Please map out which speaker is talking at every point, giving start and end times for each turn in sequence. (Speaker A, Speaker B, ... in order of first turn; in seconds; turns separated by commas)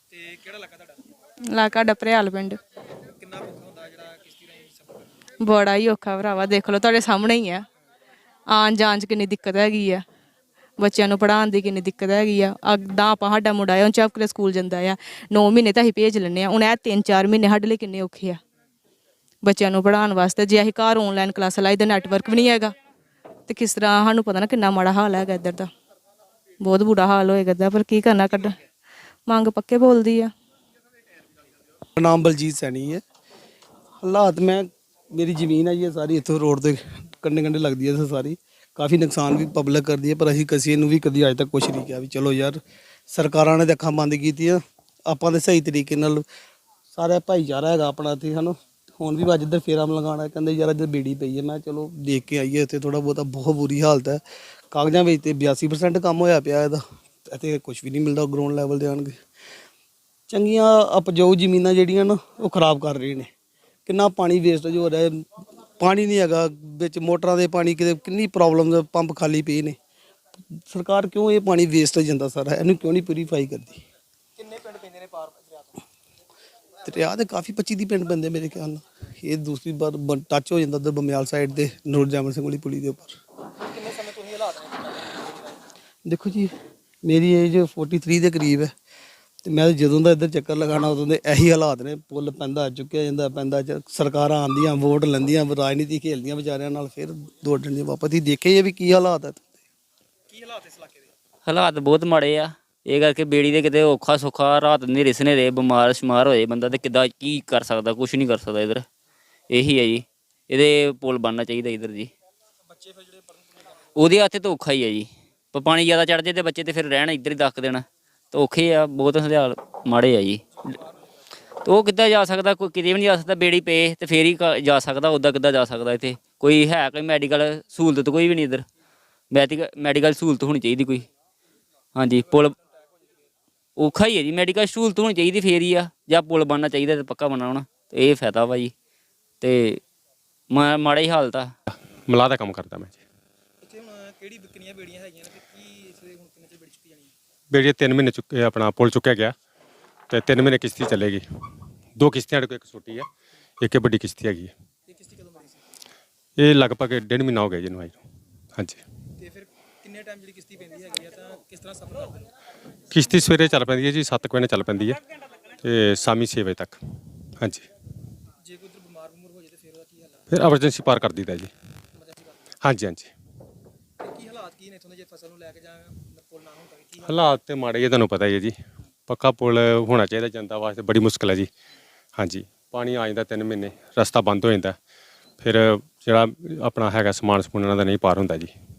Speaker A: 0.1-1.0, Speaker B: 1.5-2.6, Speaker A: 3.2-5.1, Speaker B: 5.4-7.6, Speaker B: 8.5-10.0, Speaker B: 10.8-18.4, Speaker B: 19.4-22.7, Speaker B: 23.5-25.7, Speaker B: 26.6-28.6, Speaker B: 29.3-30.3, Speaker C: 31.9-33.0, Speaker C: 34.0-46.2, Speaker C: 46.9-59.2, Speaker C: 60.3-63.3, Speaker C: 63.9-65.2, Speaker C: 65.8-69.8, Speaker C: 70.6-73.8, Speaker A: 74.4-75.8, Speaker C: 76.8-83.2, Speaker A: 83.6-85.6, Speaker C: 86.0-86.5, Speaker C: 87.0-88.7, Speaker C: 89.4-99.4, Speaker A: 100.3-101.1, Speaker D: 101.5-108.8, Speaker D: 109.5-112.1, Speaker A: 112.7-113.5, Speaker D: 114.0-120.5, Speaker A: 120.7-121.0, Speaker D: 121.6-128.6, Speaker D: 129.3-131.1, Speaker D: 131.9-132.5, Speaker A: 132.1-133.2, Speaker D: 133.8-138.7, Speaker D: 139.4-139.8, Speaker D: 140.5-141.5, Speaker E: 142.1-143.0, Speaker A: 143.6-147.1, Speaker E: 147.5-149.3, Speaker E: 150.1-151.2, Speaker E: 152.0-153.1, Speaker E: 153.6-154.5, Speaker A: 154.9-155.6, Speaker E: 156.4-158.0, Speaker A: 159.2-162.3, Speaker E: 162.9-165.0, Speaker E: 165.6-166.8, Speaker E: 167.4-167.7, Speaker A: 168.4-170.3, Speaker E: 170.3-171.5, Speaker A: 171.9-172.4, Speaker E: 172.6-173.1, Speaker A: 174.0-177.4, Speaker E: 177.1-178.5, Speaker E: 179.1-181.5, Speaker E: 182.2-184.8, Speaker E: 185.4-188.5